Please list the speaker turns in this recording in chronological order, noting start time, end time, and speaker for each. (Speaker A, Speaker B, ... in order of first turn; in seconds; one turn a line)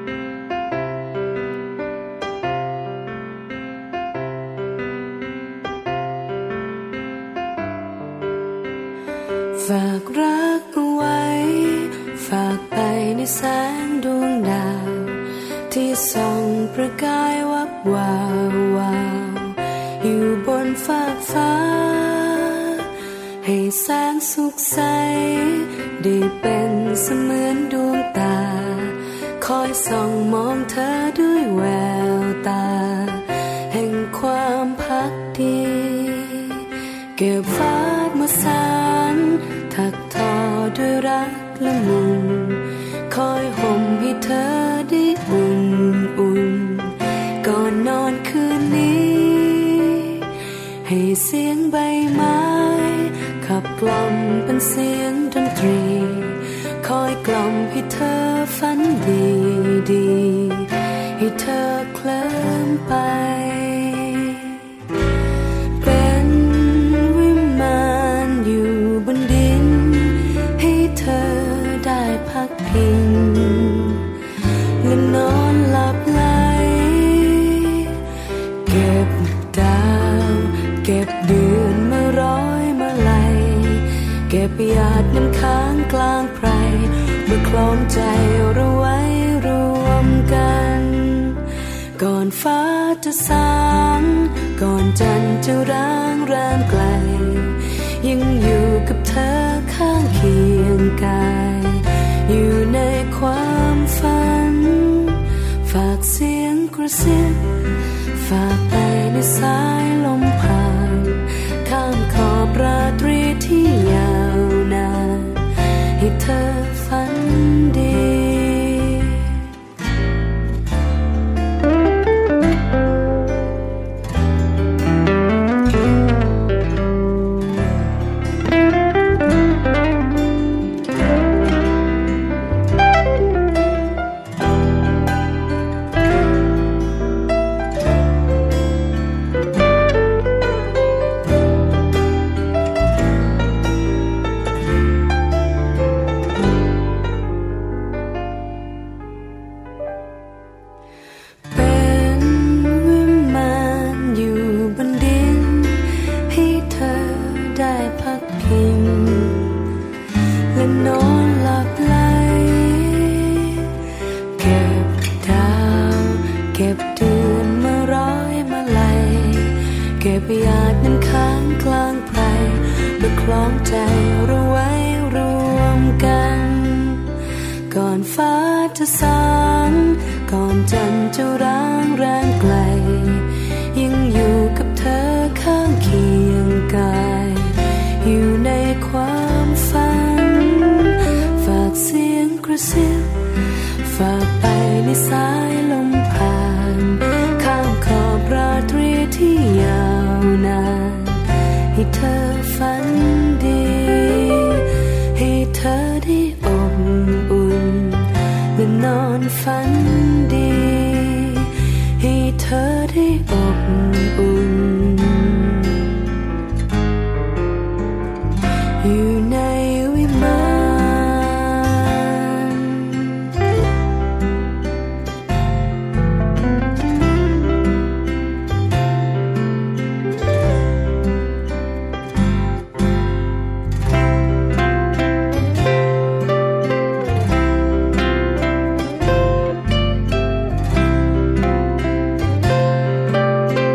Speaker A: 9.6-22.9
Speaker A: 23.4-36.6
Speaker A: 37.2-50.3
Speaker A: 50.8-64.6
Speaker A: 65.8-74.0
Speaker A: 74.8-78.0
Speaker A: 78.7-91.4
Speaker A: 92.0-107.5
Speaker A: 108.1-119.3
Speaker A: 151.5-159.5
Speaker A: 160.5-163.7
Speaker A: 164.4-177.1
Speaker A: 177.7-193.2
Speaker A: 193.8-216.0
Speaker A: 218.8-223.0